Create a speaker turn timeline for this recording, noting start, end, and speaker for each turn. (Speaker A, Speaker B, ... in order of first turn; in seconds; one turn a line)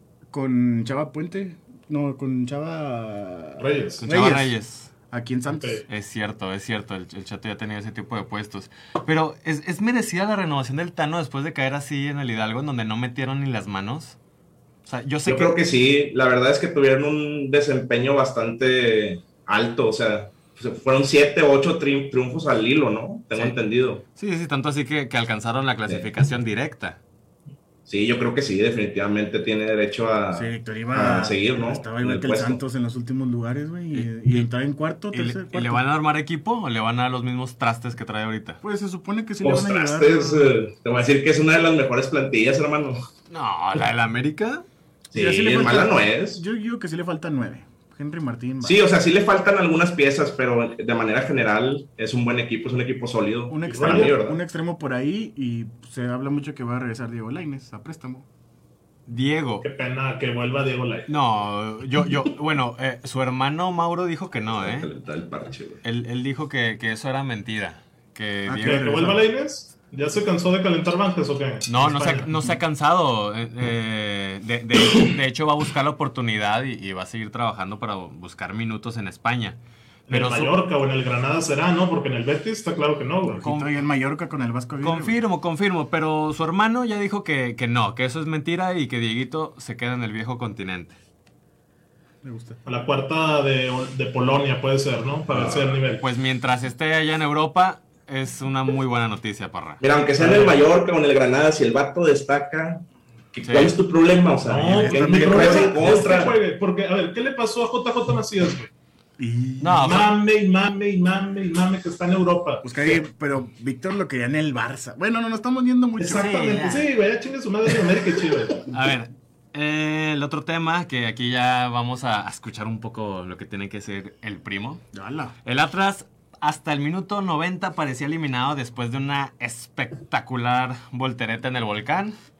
Speaker A: 0.3-4.5
Speaker B: 3.6-4.0
Speaker C: 4.0-4.9
Speaker A: 5.1-5.8
Speaker B: 5.5-5.8
Speaker C: 5.9-14.2
Speaker C: 14.8-15.6
Speaker D: 15.2-24.0
Speaker C: 24.1-27.0
Speaker D: 27.9-32.6
Speaker A: 30.3-35.8
Speaker C: 33.9-34.5
Speaker C: 35.1-38.6
Speaker A: 38.6-40.5
Speaker D: 39.4-43.0
Speaker C: 43.3-44.6
Speaker D: 45.1-46.4
Speaker A: 45.1-48.8
Speaker D: 48.6-54.4
Speaker A: 53.5-58.3
Speaker B: 53.7-54.1
Speaker C: 59.1-59.6
Speaker B: 59.6-61.1
Speaker C: 61.1-64.9
Speaker D: 64.6-65.8
Speaker C: 65.8-68.9
Speaker A: 68.5-69.2
Speaker B: 68.6-72.3
Speaker C: 71.7-80.5
Speaker B: 80.1-83.4
Speaker A: 83.2-85.2
Speaker C: 83.4-83.7
Speaker C: 84.8-91.0
Speaker A: 92.2-92.6
Speaker B: 92.7-96.0
Speaker D: 95.3-95.7
Speaker C: 95.9-99.8
Speaker D: 99.8-106.4
Speaker B: 100.2-100.5
Speaker C: 103.4-103.8
Speaker B: 104.4-108.7
Speaker A: 104.8-106.3
Speaker A: 109.2-110.0
Speaker C: 109.6-110.1
Speaker B: 109.8-113.0
Speaker A: 112.6-116.3
Speaker B: 116.0-118.7
Speaker C: 116.0-116.9
Speaker C: 118.7-124.8
Speaker A: 124.9-125.3
Speaker C: 125.4-132.1